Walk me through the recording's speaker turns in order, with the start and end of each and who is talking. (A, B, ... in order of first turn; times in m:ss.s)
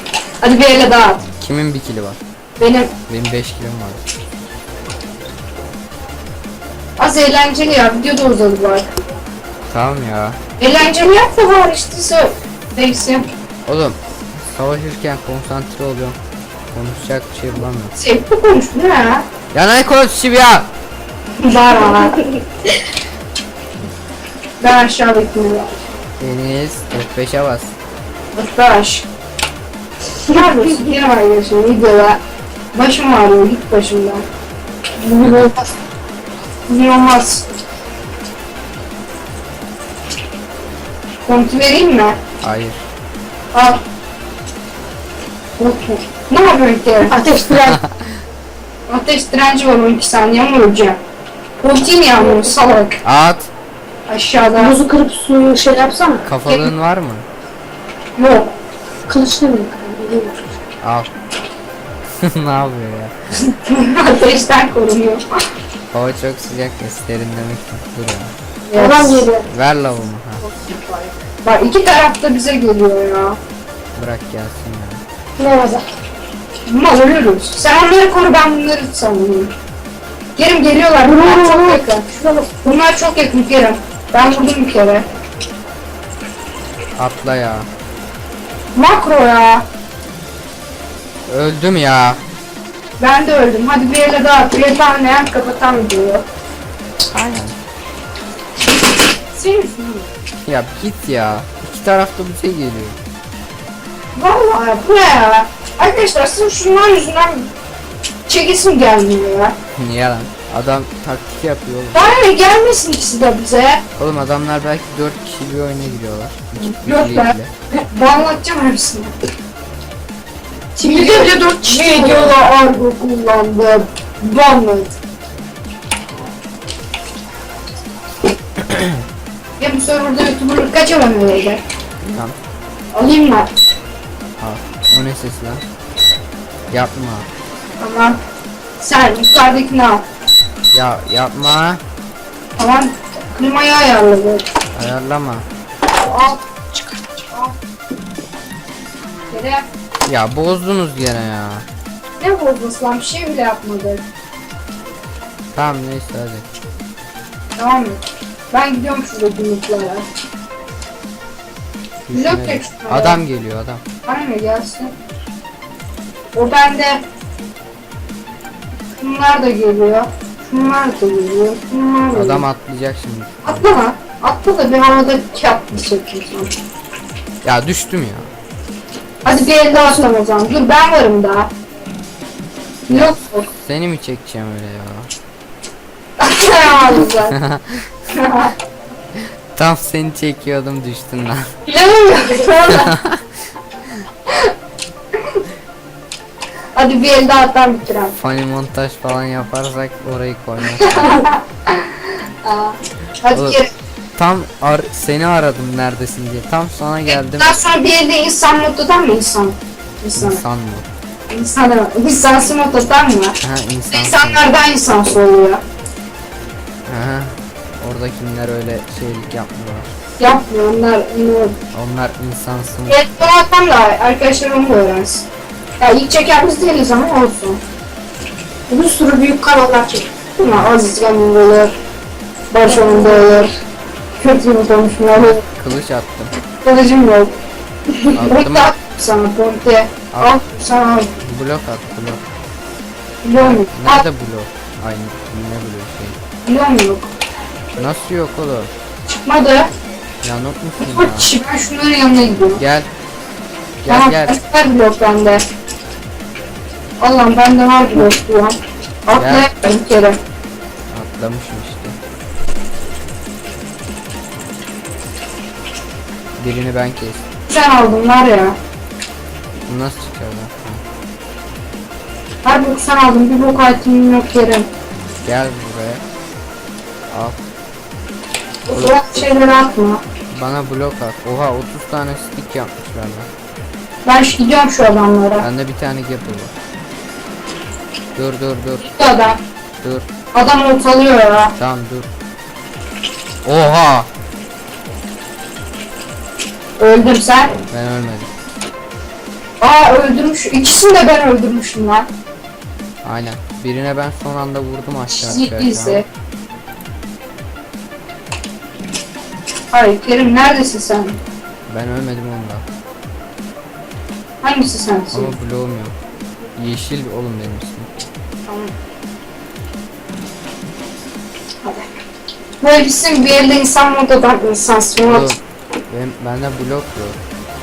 0:00.4-0:01.2 A
0:01.4-0:02.2 B
0:02.6-0:02.9 A
0:03.1-0:04.0 B
0:07.0-0:08.9 A
0:09.7-0:10.4 B
0:10.6-0:13.3 A
0:13.6-0:16.2 B
0:16.7-0:17.9 B
0:17.9-0:19.2 A
0:19.5-0:20.7 B
0:21.4-0:22.2 A
0:21.8-0:22.4 C
0:24.6-0:25.8 A
0:26.2-0:27.7 B
0:28.3-0:29.0 A
0:30.3-0:32.2 A
0:30.3-0:30.6 C
0:32.7-0:34.2 A
0:35.0-0:35.5 C
0:35.2-0:35.5 B
0:36.7-0:37.5 A
0:41.2-0:42.2 A
0:42.4-0:42.8 B
0:43.5-0:43.8 A
0:45.6-0:47.1 A
0:47.0-0:47.8 C
0:47.6-0:48.2 B
0:48.9-0:51.0 A
0:51.6-0:53.0 A
0:52.2-0:52.5 C
0:53.0-0:53.5 B
0:54.1-0:54.8 A
0:54.6-0:56.3 C
0:56.2-0:57.3 B
0:56.4-0:56.7 A
0:58.2-0:58.5 A
0:59.1-1:00.4 C
1:00.8-1:01.1 B
1:02.2-1:03.1 B
1:03.5-1:05.2 A
1:05.9-1:08.3 B
1:08.7-1:09.2 A
1:08.8-1:09.5 C
1:09.4-1:10.4 B
1:10.4-1:13.4 A
1:14.0-1:15.0 B
1:15.4-1:15.8 C
1:16.7-1:19.5 A
1:20.4-1:22.0 A
1:21.0-1:22.5 C
1:22.6-1:25.0 A
1:27.0-1:27.7 B
1:28.7-1:29.6 A
1:31.3-1:32.2 B
1:33.0-1:36.2 A
1:37.1-1:37.6 B
1:39.3-1:40.1 A
1:40.4-1:43.0 B
1:44.1-1:47.5 A
1:48.3-1:49.5 A
1:49.7-1:52.0 B
1:51.9-1:53.8 A
1:54.0-1:57.5 B
1:56.6-1:57.3 A
1:57.9-1:59.1 A
2:00.8-2:02.3 C
2:00.8-2:04.9 A
2:08.6-2:08.9 B
2:09.6-2:11.6 A
2:12.0-2:12.4 B
2:12.9-2:13.5 A
2:14.4-2:15.6 B
2:16.7-2:17.3 B
2:17.8-2:18.2 A
2:18.8-2:20.0 A
2:20.7-2:21.8 B
2:22.6-2:24.4 A
2:24.7-2:25.4 B
2:26.0-2:27.6 A
2:29.3-2:29.6 A
2:30.0-2:31.6 B
2:32.2-2:34.0 A
2:35.5-2:36.4 B
2:37.6-2:40.0 A
2:42.1-2:43.8 B
2:42.1-2:43.2 A
2:44.0-2:44.9 A
2:46.3-2:47.0 A
2:49.0-2:52.4 A
2:52.1-2:53.7 B
2:53.4-2:56.5 A
2:57.4-2:58.3 B
2:59.2-3:01.5 A
2:59.7-3:00.1 C
3:02.9-3:03.5 A
3:02.9-3:05.1 B
3:06.2-3:07.4 A
3:07.4-3:07.9 B
3:08.1-3:08.5 A
3:09.5-3:11.5 B
3:11.6-3:12.9 A
3:12.7-3:13.2 B
3:16.8-3:18.2 A
3:18.2-3:21.2 B
3:20.7-3:23.7 A
3:23.3-3:23.6 B
3:24.2-3:27.5 B
3:27.1-3:30.4 A
3:30.2-3:30.9 B
3:31.3-3:33.4 A
3:33.4-3:34.5 B
3:33.9-3:35.6 A
3:36.9-3:39.9 B
3:40.2-3:41.6 A
3:41.7-3:43.1 B
3:42.9-3:45.2 A
3:45.8-3:47.6 A
3:48.7-3:50.1 C
3:50.4-3:51.7 A
3:52.5-3:53.5 A
3:52.7-3:53.4 C
3:54.2-3:55.4 A
3:55.1-3:56.3 B
3:56.6-3:57.3 A
3:58.1-3:58.7 B
3:58.2-4:01.1 A
4:00.1-4:00.4 B
4:01.2-4:02.2 B
4:03.2-4:04.0 A
4:03.4-4:06.2 B
4:06.4-4:07.1 A
4:07.8-4:08.7 B
4:09.1-4:09.7 A
4:10.2-4:11.3 B
4:10.8-4:12.6 A
4:12.6-4:12.9 B
4:13.8-4:14.4 B
4:13.9-4:15.4 A
4:17.0-4:20.2 A
4:19.1-4:19.5 B
4:20.9-4:22.0 B
4:26.4-4:27.2 B
4:27.5-4:28.6 A
4:29.7-4:30.8 B
4:32.4-4:34.7 A
4:35.2-4:36.0 B
4:37.1-4:37.4 B
4:38.7-4:40.0 A
4:38.7-4:39.0 B
4:40.3-4:43.3 B
4:44.0-4:45.4 A
4:45.4-4:46.5 B
4:48.2-4:48.9 B
4:48.8-4:49.4 A
4:49.8-4:50.1 B
4:50.3-4:51.5 A
4:51.6-4:52.1 B
4:53.4-4:54.1 B
4:56.8-4:57.6 A
4:57.7-4:58.3 B
4:59.6-5:02.1 A
5:03.0-5:06.0 B
5:05.2-5:06.0 A
5:09.7-5:11.2 A
5:11.7-5:12.6 B
5:14.4-5:15.3 A
5:15.1-5:16.0 B
5:16.6-5:17.9 B
5:18.5-5:18.7 A
5:21.6-5:21.9 A
5:22.6-5:25.3 A
5:25.0-5:27.2 B